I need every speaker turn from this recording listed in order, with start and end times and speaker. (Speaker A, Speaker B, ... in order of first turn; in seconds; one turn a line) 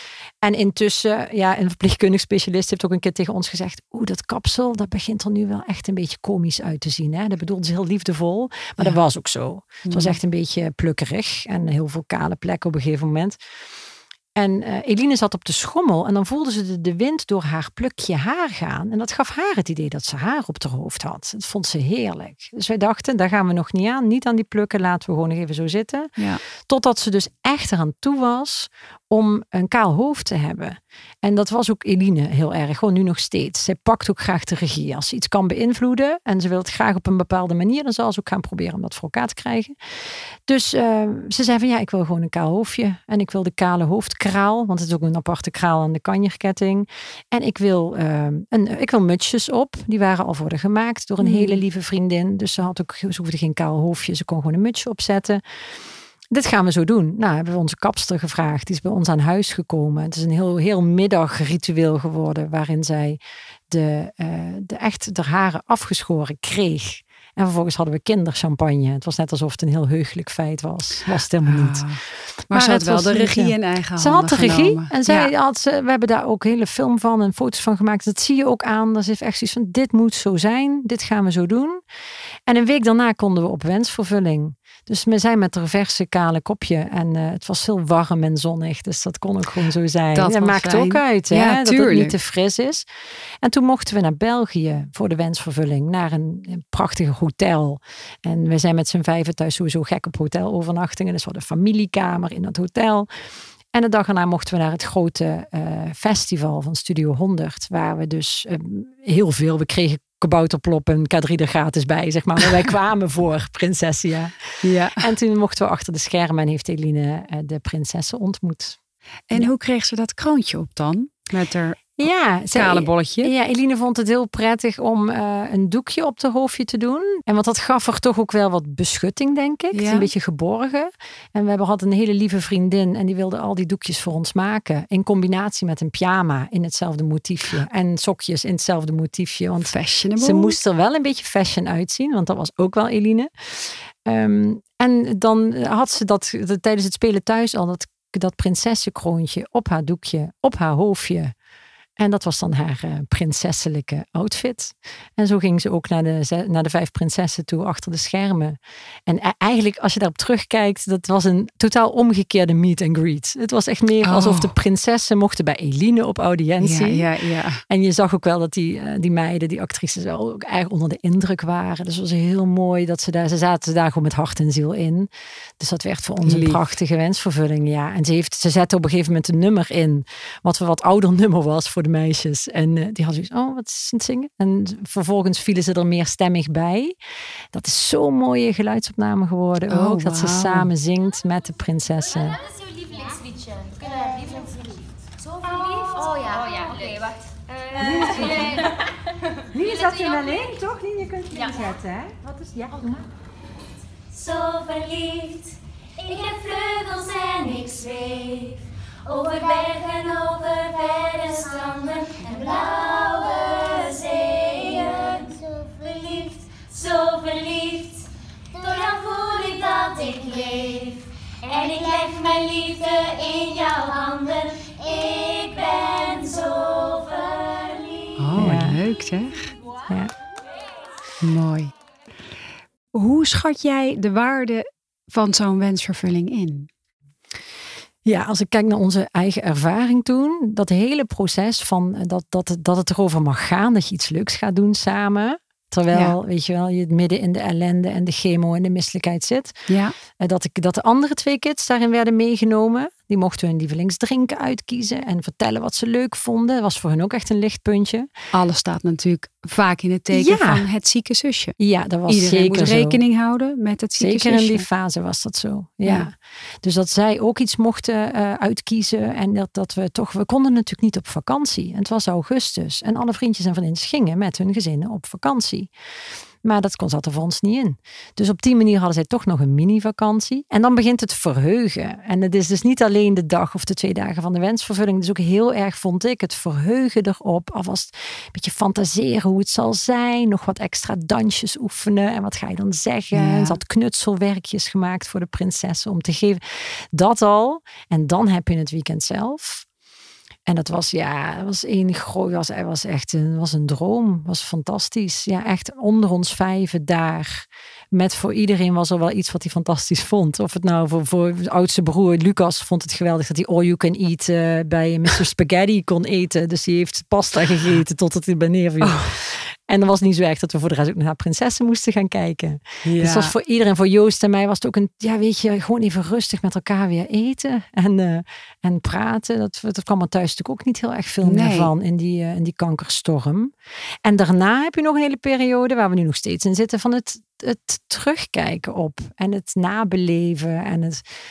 Speaker A: 0.4-13.4
Speaker B: 9.8-10.2
Speaker A: 14.3-55.4
Speaker B: 26.2-26.4
Speaker B: 51.2-51.6
Speaker A: 56.3-71.9
Speaker B: 71.4-75.3
Speaker A: 72.5-81.8
Speaker A: 82.5-92.8
Speaker B: 90.1-92.2
Speaker A: 93.4-103.1
Speaker A: 103.7-114.4
Speaker B: 114.6-115.1
Speaker A: 115.0-118.8
Speaker B: 119.3-122.0
Speaker A: 122.0-151.3
Speaker B: 122.5-123.3
Speaker B: 129.7-130.1
Speaker B: 139.6-140.6
Speaker A: 152.0-167.1
Speaker B: 164.0-164.5
Speaker B: 166.6-167.6
Speaker A: 167.7-187.0
Speaker B: 176.2-176.6
Speaker A: 187.5-192.4
Speaker B: 189.7-190.7
Speaker C: 192.6-198.8
Speaker A: 197.8-198.7
Speaker A: 199.5-203.1
Speaker C: 204.1-228.2
Speaker B: 228.2-229.5
Speaker A: 228.3-228.8
Speaker B: 231.2-231.7
Speaker B: 232.9-236.7
Speaker A: 238.0-249.6
Speaker B: 245.9-246.2
Speaker B: 249.7-249.9
Speaker A: 250.2-258.1
Speaker B: 258.3-261.6
Speaker A: 260.1-260.6
Speaker A: 261.6-263.0
Speaker B: 262.1-264.7
Speaker A: 263.9-275.7
Speaker B: 265.8-266.1
Speaker A: 276.4-299.6
Speaker B: 293.1-293.6
Speaker A: 300.5-341.0
Speaker B: 318.8-319.1
Speaker B: 322.8-323.3
Speaker B: 331.2-331.7